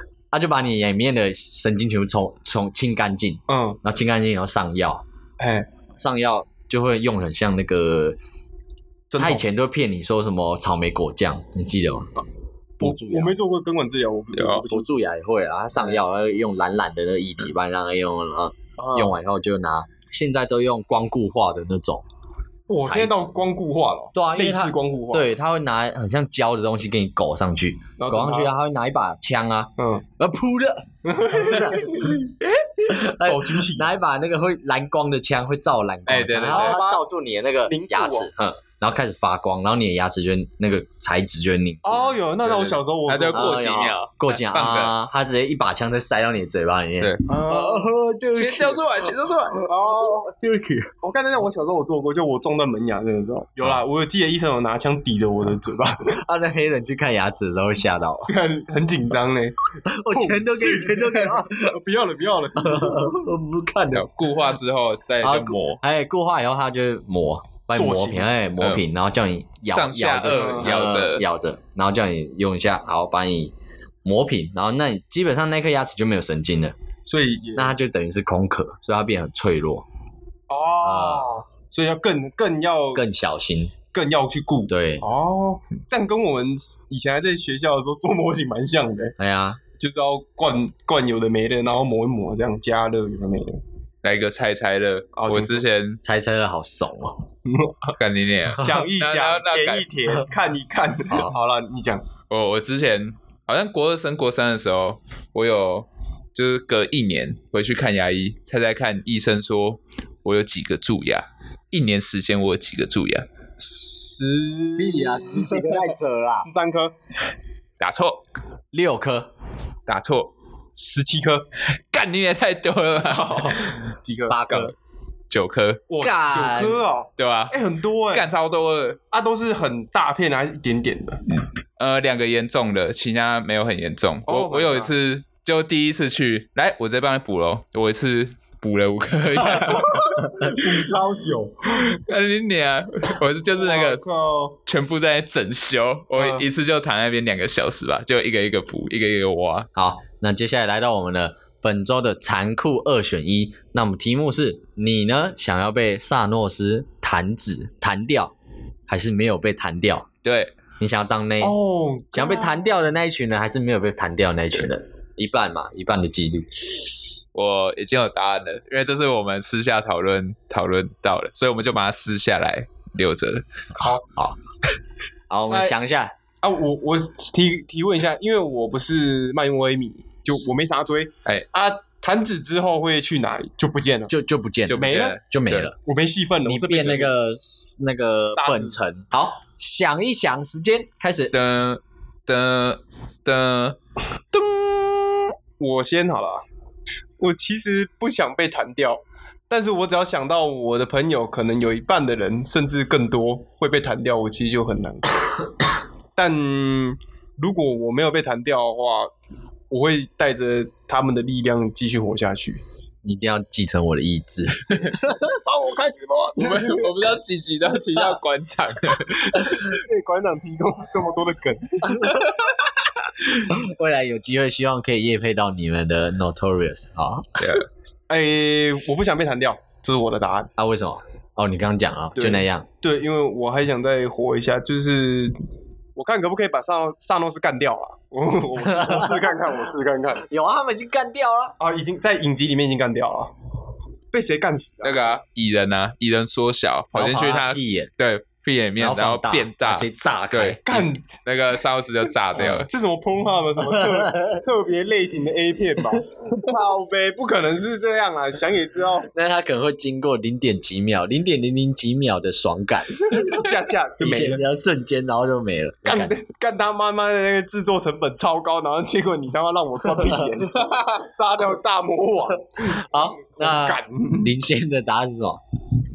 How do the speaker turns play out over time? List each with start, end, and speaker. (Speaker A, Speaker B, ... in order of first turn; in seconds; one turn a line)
Speaker A: 0.3-5.0
Speaker B: 3.5-3.8
Speaker B: 5.4-5.7
Speaker A: 6.0-8.2
Speaker B: 9.1-9.4
Speaker A: 9.2-12.1
Speaker A: 12.8-13.3
Speaker B: 12.8-14.9
Speaker C: 14.3-14.6
Speaker A: 14.7-22.0
Speaker B: 18.8-19.2
Speaker B: 22.7-25.3
Speaker A: 22.8-23.3
Speaker A: 24.1-32.2
Speaker B: 28.0-28.5
Speaker B: 29.8-30.0
Speaker B: 31.0-32.3
Speaker A: 32.9-42.2
Speaker B: 33.0-33.9
Speaker C: 36.1-36.8
Speaker B: 36.5-37.0
Speaker B: 37.7-38.3
Speaker B: 41.8-43.9
Speaker C: 42.5-44.9
Speaker A: 43.3-50.9
Speaker B: 47.3-47.9
Speaker C: 48.3-49.6
Speaker B: 49.6-50.3
Speaker B: 51.0-56.2
Speaker A: 56.2-58.3
Speaker B: 58.3-59.5
Speaker A: 59.8-61.8
Speaker B: 60.1-63.2
Speaker A: 62.6-64.1
Speaker C: 63.9-65.8
Speaker A: 65.2-73.5
Speaker B: 67.7-68.3
Speaker C: 68.6-68.8
Speaker C: 69.7-71.2
Speaker B: 70.3-70.9
Speaker A: 74.0-76.7
Speaker B: 77.0-77.8
Speaker A: 77.5-79.8
Speaker B: 80.5-83.0
Speaker A: 80.8-81.3
Speaker A: 82.9-83.7
Speaker B: 83.9-89.1
Speaker A: 84.7-85.0
Speaker A: 89.2-89.6
Speaker B: 89.8-93.6
Speaker C: 94.0-96.0
Speaker B: 95.1-95.6
Speaker A: 96.0-97.2
Speaker B: 97.4-98.0
Speaker C: 98.0-99.9
Speaker B: 98.5-102.0
Speaker A: 101.1-101.3
Speaker C: 102.3-113.2
Speaker B: 113.6-116.9
Speaker A: 114.8-116.5
Speaker C: 117.8-118.2
Speaker A: 118.7-119.3
Speaker C: 119.9-120.3
Speaker B: 120.7-121.5
Speaker C: 121.9-123.8
Speaker B: 123.1-124.6
Speaker A: 124.3-124.7
Speaker C: 125.3-125.8
Speaker B: 125.9-128.3
Speaker A: 126.0-126.8
Speaker C: 127.2-127.5
Speaker C: 128.1-129.0
Speaker B: 129.1-131.2
Speaker C: 131.3-140.7
Speaker B: 134.2-134.9
Speaker B: 139.6-142.0
Speaker C: 141.8-144.0
Speaker B: 143.5-144.6
Speaker C: 144.7-149.7
Speaker B: 146.1-146.4
Speaker A: 149.7-158.3
Speaker A: 158.9-160.1
Speaker C: 160.2-160.5
Speaker A: 160.8-161.6
Speaker B: 161.4-162.7
Speaker A: 162.1-166.6
Speaker C: 167.3-173.4
Speaker A: 174.0-174.4
Speaker A: 175.3-176.1
Speaker B: 175.5-175.7
Speaker B: 176.4-184.1
Speaker A: 184.1-185.7
Speaker C: 184.7-185.7
Speaker B: 184.8-185.2
Speaker B: 185.8-187.1
Speaker A: 186.4-191.3
Speaker B: 188.3-188.8
Speaker C: 191.3-193.8
Speaker C: 194.3-195.2
Speaker B: 195.6-196.4
Speaker B: 197.2-205.5
Speaker B: 206.2-209.1
Speaker B: 209.7-212.6
Speaker A: 213.0-215.4
Speaker B: 215.2-216.9
Speaker C: 216.4-219.7
Speaker B: 219.3-222.1
Speaker A: 221.8-222.3
Speaker A: 223.3-227.4
Speaker C: 227.4-227.6
Speaker B: 228.1-230.5
Speaker A: 230.6-232.7
Speaker B: 232.2-235.3
Speaker B: 235.9-240.2
Speaker A: 238.6-239.2
Speaker A: 240.3-241.6
Speaker B: 241.6-243.3
Speaker B: 244.1-245.1
Speaker C: 244.8-252.7
Speaker A: 246.9-247.9
Speaker A: 248.8-250.6
Speaker B: 250.7-251.2
Speaker B: 252.4-259.1
Speaker A: 253.7-254.4
Speaker A: 259.1-263.5
Speaker B: 263.1-264.4
Speaker A: 264.0-266.1
Speaker B: 265.8-274.3
Speaker A: 270.0-270.3
Speaker A: 272.6-275.4